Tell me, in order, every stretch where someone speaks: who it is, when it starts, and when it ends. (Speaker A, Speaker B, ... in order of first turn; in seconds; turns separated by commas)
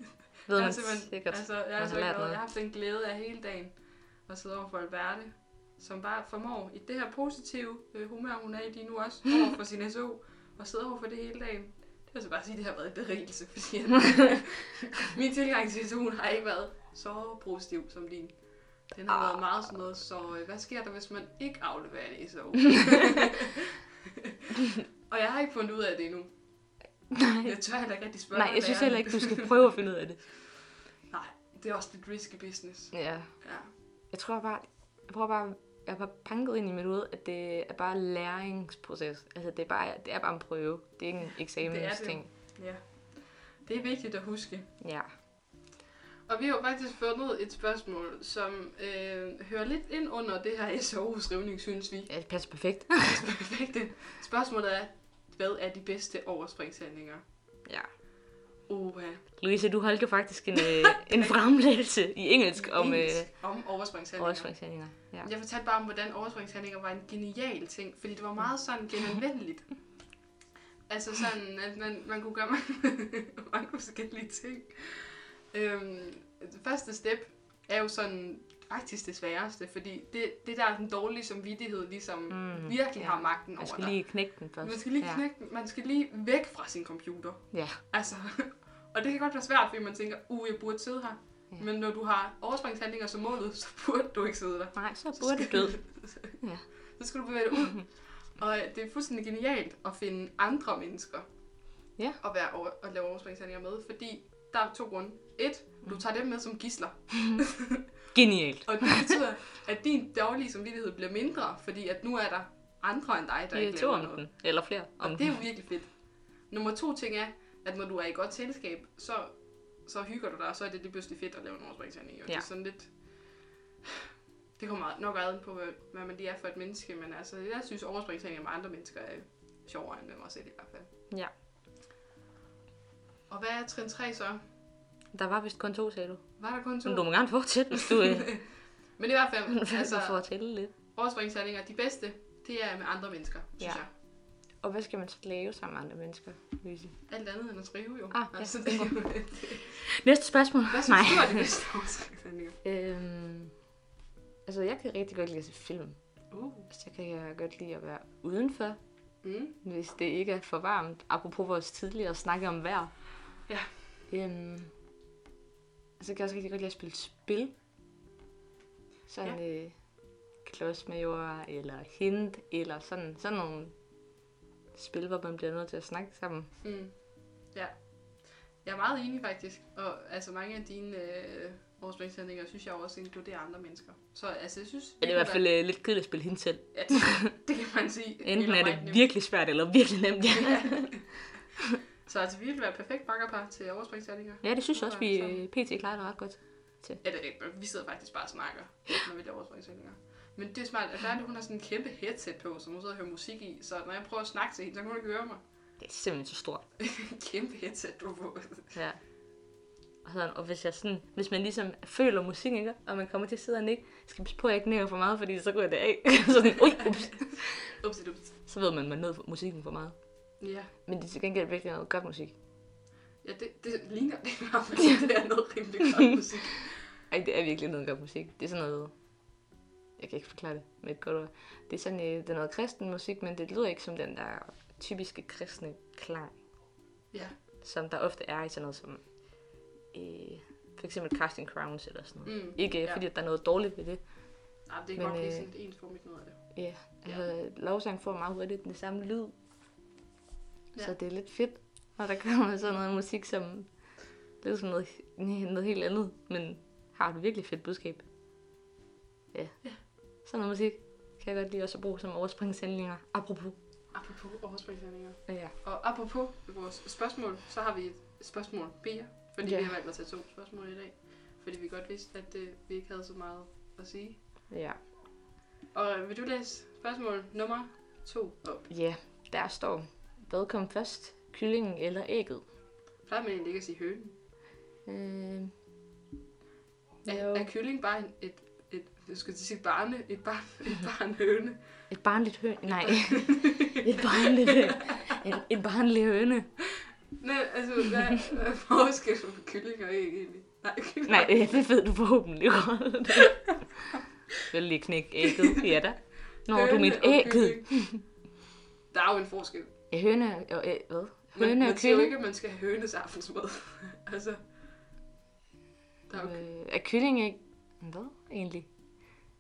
Speaker A: 0.5-2.4, Speaker B: 0.5-23.6, Speaker A: 19.1-19.4, Speaker B: 24.7-26.4, Speaker A: 27.1-27.6, Speaker B: 27.4-29.6, Speaker A: 28.3-30.2, Speaker B: 31.1-33.7, Speaker A: 32.9-33.5, Speaker A: 34.1-42.3, Speaker B: 41.6-44.7, Speaker A: 44.8-45.1, Speaker B: 46.3-52.1, Speaker A: 52.1-53.4, Speaker B: 53.0-57.2, Speaker B: 58.7-59.3, Speaker A: 59.4-63.6, Speaker B: 60.5-61.4, Speaker B: 62.5-70.0, Speaker A: 64.2-65.3, Speaker B: 70.9-96.4, Speaker A: 82.3-85.2, Speaker A: 87.5-87.8, Speaker A: 94.8-96.7, Speaker B: 96.9-101.3, Speaker B: 102.2-107.8, Speaker A: 108.1-109.2, Speaker B: 108.7-123.5, Speaker A: 113.5-115.4, Speaker B: 124.6-130.9, Speaker B: 133.3-134.4, Speaker A: 135.1-138.3, Speaker B: 136.4-143.9, Speaker A: 139.5-140.7, Speaker A: 144.6-147.1, Speaker B: 147.1-149.8, Speaker A: 148.1-148.9, Speaker A: 149.8-151.5, Speaker B: 150.7-152.6, Speaker A: 152.6-153.6, Speaker A: 154.5-156.0, Speaker B: 156.3-156.7, Speaker A: 156.7-158.8, Speaker B: 159.2-159.6, Speaker A: 159.6-163.0, Speaker B: 163.5-163.9, Speaker A: 164.1-164.7, Speaker A: 166.0-167.5, Speaker A: 169.1-169.8, Speaker A: 170.4-173.8, Speaker A: 174.7-176.5, Speaker B: 176.6-185.5, Speaker A: 185.0-187.3, Speaker B: 186.7-189.1, Speaker A: 188.2-190.9, Speaker B: 190.3-191.1, Speaker B: 192.0-195.5, Speaker A: 194.4-197.0, Speaker B: 197.0-205.4, Speaker A: 205.8-206.6, Speaker B: 206.8-208.8, Speaker A: 208.8-209.0, Speaker A: 210.0-217.8, Speaker B: 216.8-218.4, Speaker A: 218.5-222.3, Speaker B: 220.4-220.7, Speaker B: 223.2-226.8, Speaker A: 227.1-229.0, Speaker A: 230.0-236.4, Speaker B: 237.1-237.4, Speaker A: 237.6-239.2, Speaker A: 239.9-245.5, Speaker B: 242.2-243.0, Speaker B: 244.7-247.3, Speaker A: 246.5-249.3, Speaker A: 250.8-258.1, Speaker A: 259.3-263.6, Speaker B: 263.9-274.2, Speaker A: 265.3-265.5, Speaker A: 269.4-269.7, Speaker A: 274.5-274.8, Speaker B: 275.7-278.7, Speaker A: 278.7-282.4, Speaker B: 283.1-284.1, Speaker A: 284.9-285.5, Speaker A: 287.1-287.5, Speaker B: 287.1-291.9, Speaker A: 291.9-296.5, Speaker B: 292.6-295.2, Speaker B: 297.2-301.5, Speaker A: 301.1-303.6, Speaker A: 304.5-308.0, Speaker B: 305.3-305.7, Speaker B: 306.5-307.8, Speaker B: 308.9-309.7, Speaker A: 309.9-312.1, Speaker B: 311.4-314.4, Speaker B: 316.1-316.5, Speaker A: 316.1-318.7